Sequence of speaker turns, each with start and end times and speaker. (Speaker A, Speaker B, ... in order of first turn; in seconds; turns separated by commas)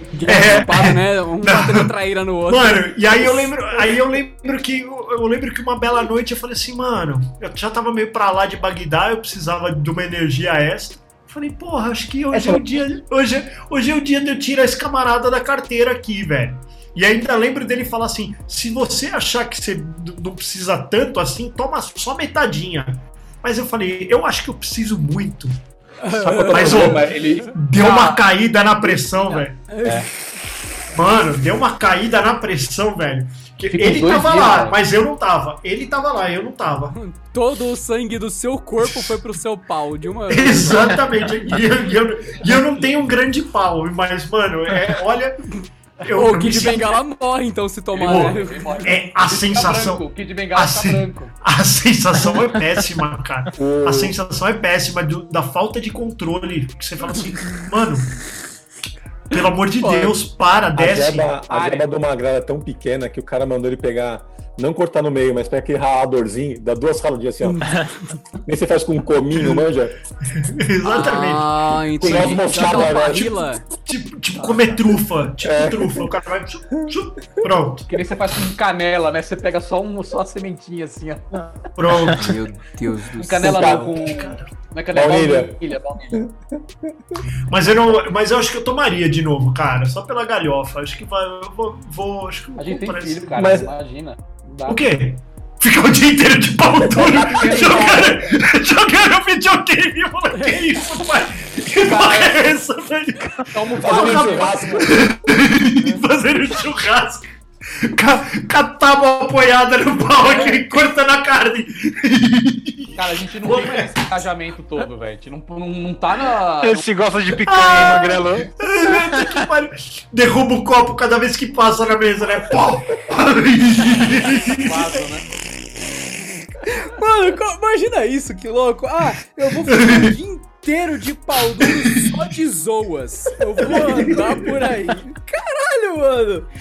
Speaker A: 0.1-3.5, Speaker B: 0.2-1.9, Speaker B: 2.5-25.5, Speaker A: 26.0-27.0, Speaker C: 26.3-28.2, Speaker B: 26.4-29.6, Speaker C: 28.8-30.1, Speaker A: 29.7-30.1, Speaker B: 30.9-36.9, Speaker C: 33.7-34.8, Speaker A: 36.9-40.9, Speaker B: 38.8-39.1, Speaker B: 40.3-46.9, Speaker A: 46.1-48.8, Speaker B: 48.0-50.0, Speaker C: 48.0-51.3, Speaker B: 50.5-58.2, Speaker D: 53.5-54.2, Speaker B: 59.3-61.3, Speaker A: 59.8-60.1, Speaker D: 60.7-67.8, Speaker C: 61.5-61.9, Speaker A: 67.5-67.8, Speaker D: 68.4-69.9, Speaker B: 69.4-69.6, Speaker B: 70.2-71.5, Speaker A: 70.8-73.6, Speaker D: 72.0-73.3, Speaker B: 72.1-77.8, Speaker C: 74.3-74.8, Speaker D: 75.4-76.1, Speaker C: 77.9-81.3, Speaker E: 81.3-82.2, Speaker B: 81.8-82.3, Speaker A: 82.1-84.2, Speaker C: 83.2-86.2, Speaker D: 83.4-84.0, Speaker B: 83.8-84.5, Speaker D: 84.9-85.6, Speaker D: 86.1-87.2, Speaker B: 87.5-93.5, Speaker C: 92.6-94.8, Speaker D: 93.3-93.7, Speaker B: 94.7-107.3, Speaker D: 96.9-98.2, Speaker C: 97.0-98.1, Speaker A: 100.3-100.6, Speaker C: 101.8-102.6, Speaker C: 103.4-104.9, Speaker D: 103.8-105.0, Speaker B: 107.8-113.9, Speaker C: 110.2-110.6, Speaker C: 112.9-116.8, Speaker E: 116.6-118.5, Speaker B: 117.5-124.8, Speaker E: 119.0-119.4, Speaker C: 124.2-125.3, Speaker A: 126.7-136.5, Speaker B: 129.7-130.1, Speaker B: 131.8-132.1, Speaker B: 133.6-134.5